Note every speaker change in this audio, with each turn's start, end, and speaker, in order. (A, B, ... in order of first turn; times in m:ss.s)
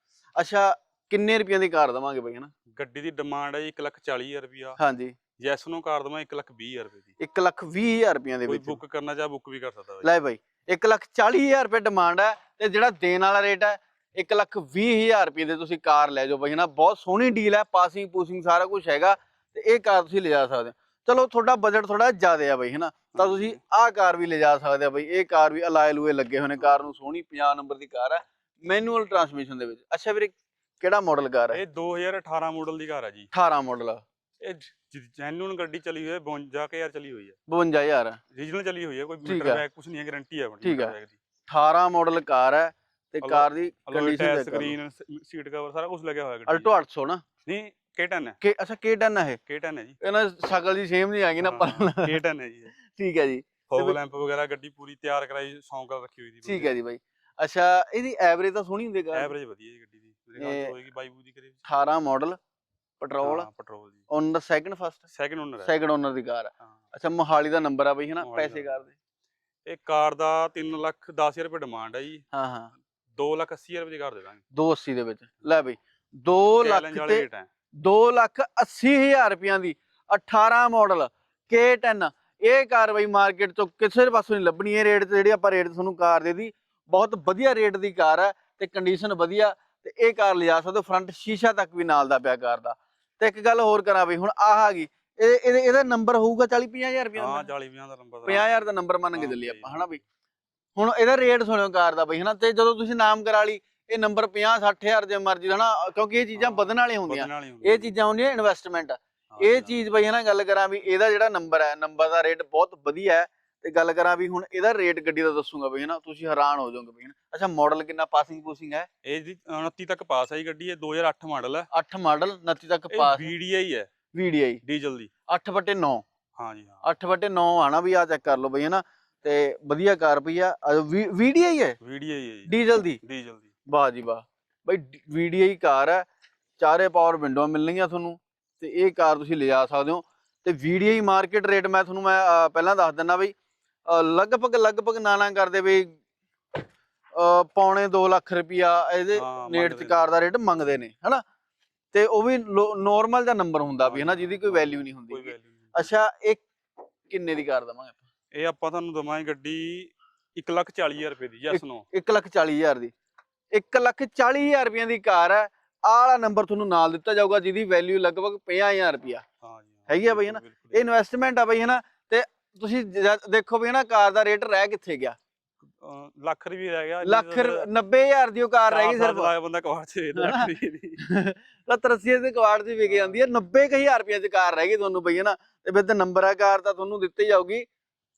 0:00.4-0:02.5 A
0:02.7-0:04.8 B
0:04.8-0:05.2 A
0:05.4-0:07.1 B
0:07.2-0:08.8 A
0:08.5-0:10.1 B
0:10.0-0:31.6 A
0:23.2-0:23.6 B
0:31.5-0:33.3 B
0:33.3-0:34.0 A
0:34.4-0:37.4 B
0:37.5-0:38.2 A
0:38.3-0:41.2 B
0:39.2-0:39.6 A
0:40.6-0:41.0 A
0:41.5-0:44.8 A
0:43.2-0:46.7 B
0:46.5-0:47.2 A
0:47.5-0:48.4 B
0:48.4-0:49.4 A
0:49.5-0:50.0 B
0:50.0-0:52.2 A
0:51.4-0:52.8 B
0:52.9-0:54.0 A
0:53.7-0:56.7 B
0:56.4-0:59.3 A
0:59.1-1:01.6 B
1:00.4-1:00.7 A
1:01.7-1:02.4 A
1:03.0-1:03.5 A
1:03.2-1:04.0 B
1:04.1-1:05.0 A
1:05.1-1:05.7 B
1:05.6-1:08.9 A
1:08.2-1:08.7 B
1:09.7-1:12.2 B
1:12.3-1:12.7 A
1:13.2-1:14.4 B
1:14.5-1:17.3 A
1:16.6-1:17.5 B
1:17.8-1:37.5 A
1:37.2-1:39.9 B
1:38.3-1:40.0 A
1:40.8-1:58.9 A
1:46.4-1:47.9 B
1:49.3-1:49.8 B
1:59.0-2:01.7 B
2:01.7-2:03.3 A
2:02.9-2:03.9 B
2:04.1-2:04.6 A
2:04.6-2:05.1 B
2:05.3-2:06.0 A
2:06.4-2:06.8 B
2:06.8-2:11.8 A
2:11.8-2:12.5 B
2:12.5-2:13.0 A
2:13.0-2:13.5 B
2:13.7-2:16.0 A
2:16.6-2:23.3 A
2:23.9-2:25.9 A
2:27.2-2:31.2 A
2:29.1-2:30.1 B
2:31.9-2:36.4 A
2:33.8-2:35.9 B
2:37.1-2:38.0 A
2:38.3-2:41.8 B
2:41.5-2:42.9 A
2:43.5-2:49.2 A
2:49.4-2:50.8 B
2:49.9-2:55.2 A
2:55.8-2:57.7 B
2:57.0-2:59.3 A
2:58.7-3:01.0 B
3:00.2-3:00.5 A
3:01.0-3:07.7 A
3:02.9-3:03.2 B